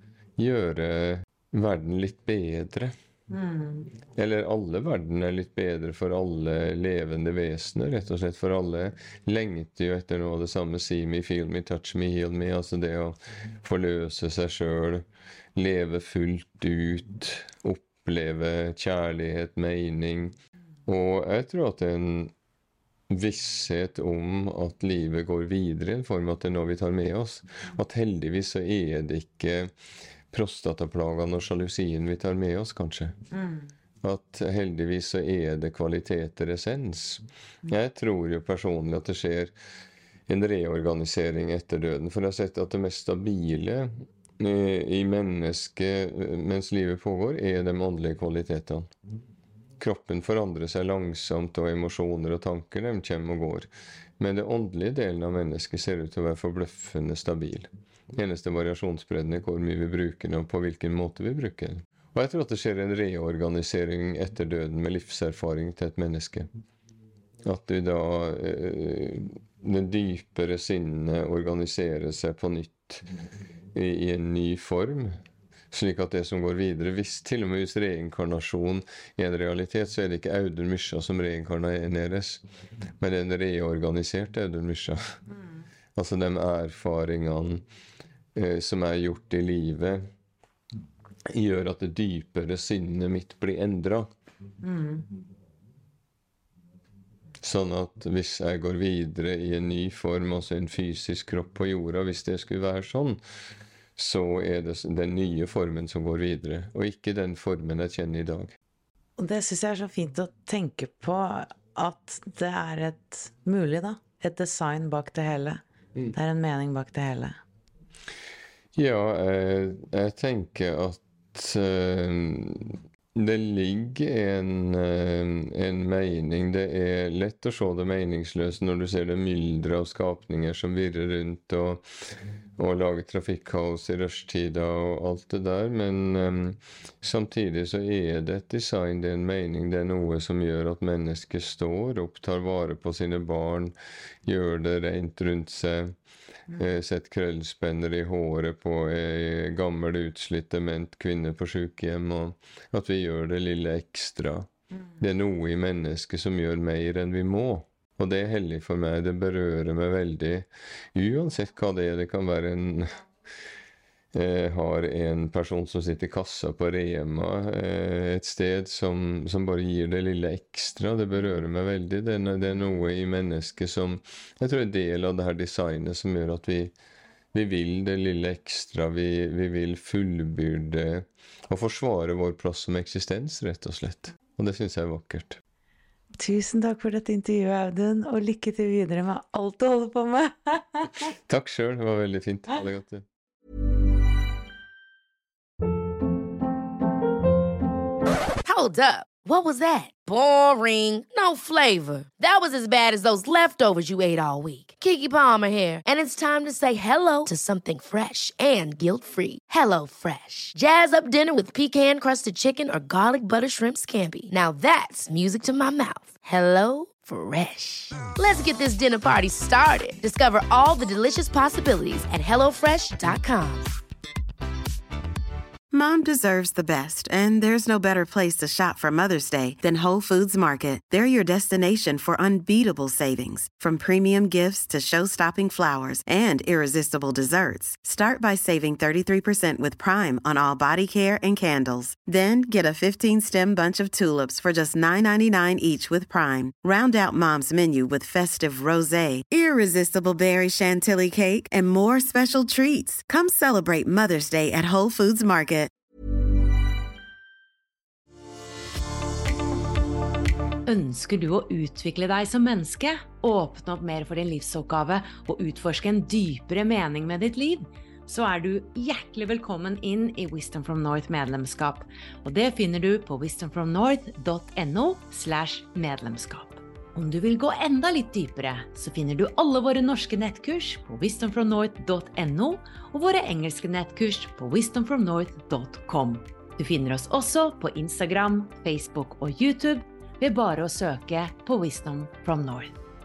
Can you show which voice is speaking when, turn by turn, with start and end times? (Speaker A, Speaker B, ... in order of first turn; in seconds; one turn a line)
Speaker A: 0.4-2.9
Speaker B: 3.3-3.9
Speaker A: 4.2-20.4
Speaker A: 20.9-22.3
Speaker A: 23.1-29.7
Speaker A: 30.3-33.2
Speaker A: 34.0-39.5
Speaker A: 40.3-48.9
Speaker A: 49.8-66.5
Speaker A: 67.4-73.1
Speaker A: 73.7-75.2
Speaker A: 75.7-82.4
Speaker A: 83.0-85.2
Speaker A: 86.0-87.7
Speaker A: 88.3-90.1
Speaker A: 91.3-94.1
Speaker B: 94.7-95.0
Speaker A: 97.4-103.2
Speaker A: 104.0-108.5
Speaker B: 109.2-115.6
Speaker B: 116.1-117.4
Speaker A: 118.8-131.8
Speaker A: 132.6-145.9
Speaker A: 146.5-154.5
Speaker A: 155.0-163.0
Speaker A: 164.1-176.7
Speaker A: 177.3-185.4
Speaker B: 186.2-191.0
Speaker A: 191.3-193.1
Speaker C: 198.4-223.7
Speaker D: 225.7-255.7
Speaker E: 260.7-292.8